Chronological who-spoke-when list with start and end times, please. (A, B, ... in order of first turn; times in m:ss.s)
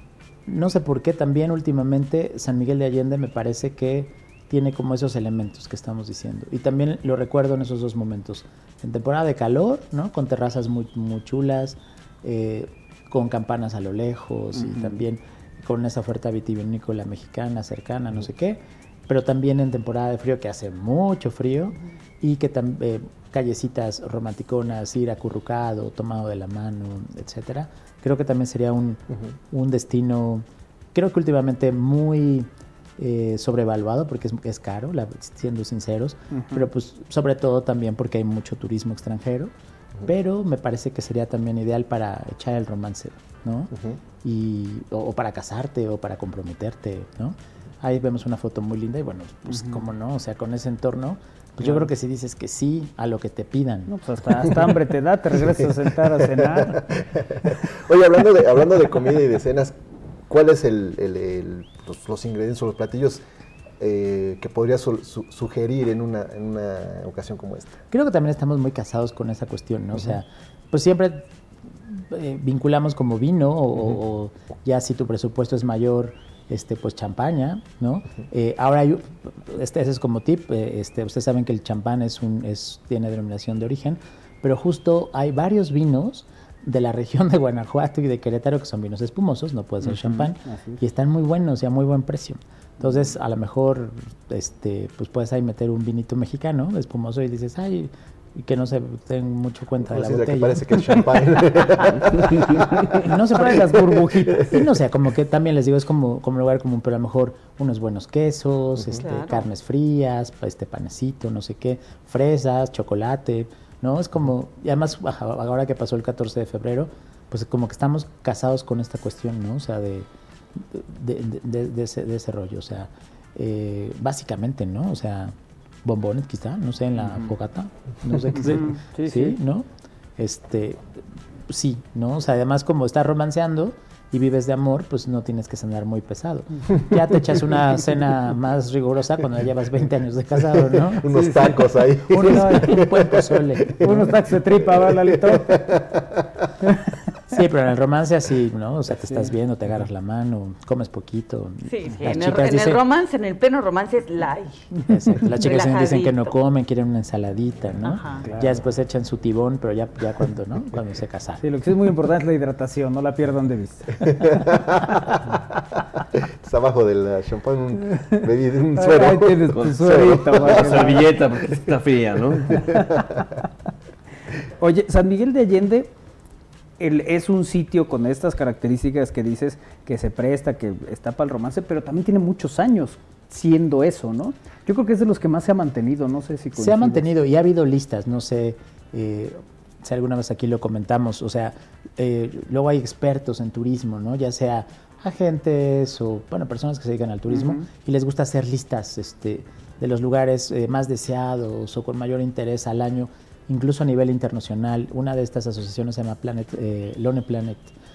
0:00.4-0:39.5 A
0:14.5-0:15.0 B
0:36.3-0:36.7 B
0:40.0-0:43.7 A
0:43.7-0:44.0 C
0:44.2-0:53.9 A
0:49.5-0:49.9 B
0:51.6-0:51.9 B
0:53.9-0:56.8 B
0:56.3-0:59.8 C
1:00.3-1:03.2 C
1:03.8-1:07.8 C
1:07.9-1:11.2 A
1:11.8-1:40.6 A
1:29.8-1:30.8 B
1:39.8-1:42.9 C
1:43.0-2:09.7 A
1:43.1-1:44.6 B
1:48.8-1:49.0 C
1:49.0-1:49.5 D
2:07.0-2:07.3 B
2:08.3-2:09.4 B
2:10.2-2:10.9 A
2:11.5-2:21.3 A
2:20.9-2:24.0 C
2:21.1-2:22.8 B
2:22.1-2:24.1 A
2:23.8-2:25.5 B
2:24.8-2:26.3 C
2:27.3-2:32.8 A
2:29.0-2:29.3 B
2:31.6-2:36.3 D
2:34.8-2:41.4 A
2:37.8-2:38.3 D
2:38.2-2:38.6 B
2:41.4-2:43.9 B
2:44.1-2:44.9 C
2:46.2-2:50.9 C
2:48.7-2:51.5 B
2:49.5-2:52.6 E
2:52.5-2:53.0 B
2:54.6-2:55.9 B
2:56.8-3:07.1 B
3:06.5-3:27.7 A
3:17.3-3:17.6 B